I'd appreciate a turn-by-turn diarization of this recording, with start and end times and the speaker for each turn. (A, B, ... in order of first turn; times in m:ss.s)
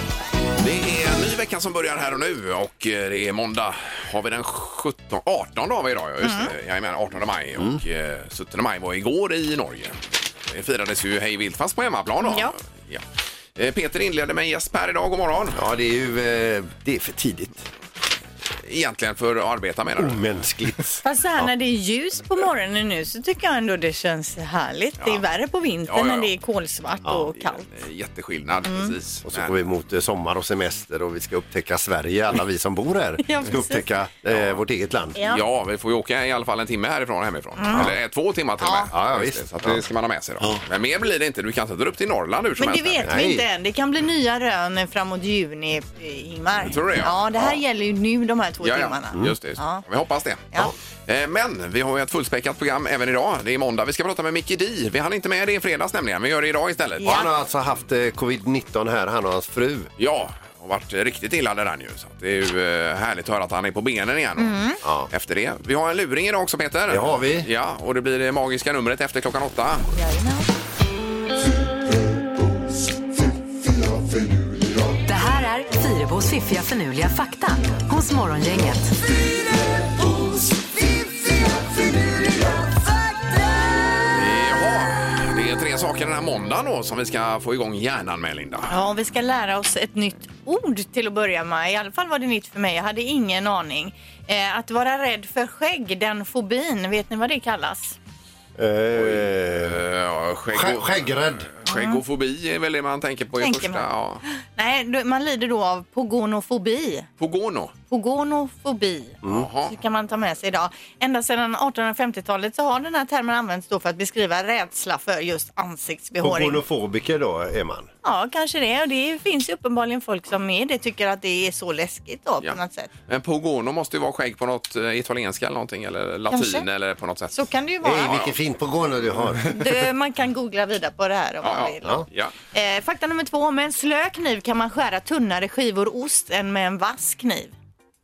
0:00.6-0:13.0 A
0:06.2-0:06.5 B
0:12.2-0:12.5 B
0:13.6-0:15.6 A
0:15.6-0:17.6 C
0:18.6-0:20.2 A
0:20.0-0:21.5 C
0:21.0-0:27.6 B
0:25.9-0:26.3 A
0:27.3-0:29.5 A
0:28.6-0:28.9 B
0:29.3-0:35.2 C
0:33.2-0:33.8 B
0:34.3-0:34.6 A
0:35.2-0:35.4 B
0:35.3-0:43.1 A
0:37.6-0:37.9 B
0:38.6-0:38.9 B
0:38.9-0:39.8 C
0:42.6-0:49.8 B
0:43.0-0:43.4 C
0:46.6-0:47.5 A
0:48.6-0:50.5 A
0:51.1-0:57.2 A
0:57.0-0:57.3 B
0:57.0-0:59.9 C
1:00.0-1:04.6 A
1:04.4-1:04.8 B
1:04.8-1:05.1 C
1:05.1-1:09.9 A
1:06.9-1:07.5 C
1:09.9-1:10.5 B
1:15.0-1:19.0 D
1:24.1-1:28.7 A
1:28.7-1:38.0 B
1:38.6-1:39.8 C
1:38.9-1:44.2 A
1:40.5-1:41.5 C
1:41.7-1:42.0 B
1:43.4-1:47.1 B
1:47.2-1:47.7 A
1:47.9-1:56.6 B
1:49.2-1:49.5 C
1:49.2-1:49.7 A
1:56.2-1:57.9 C
1:58.0-2:02.9 B
2:03.1-2:07.3 A
2:06.3-2:06.6 B
2:07.3-2:08.1 B
2:07.8-2:09.6 C
2:08.0-2:08.3 A
2:09.5-2:12.0 B
2:11.4-2:12.3 A
2:12.5-2:17.5 B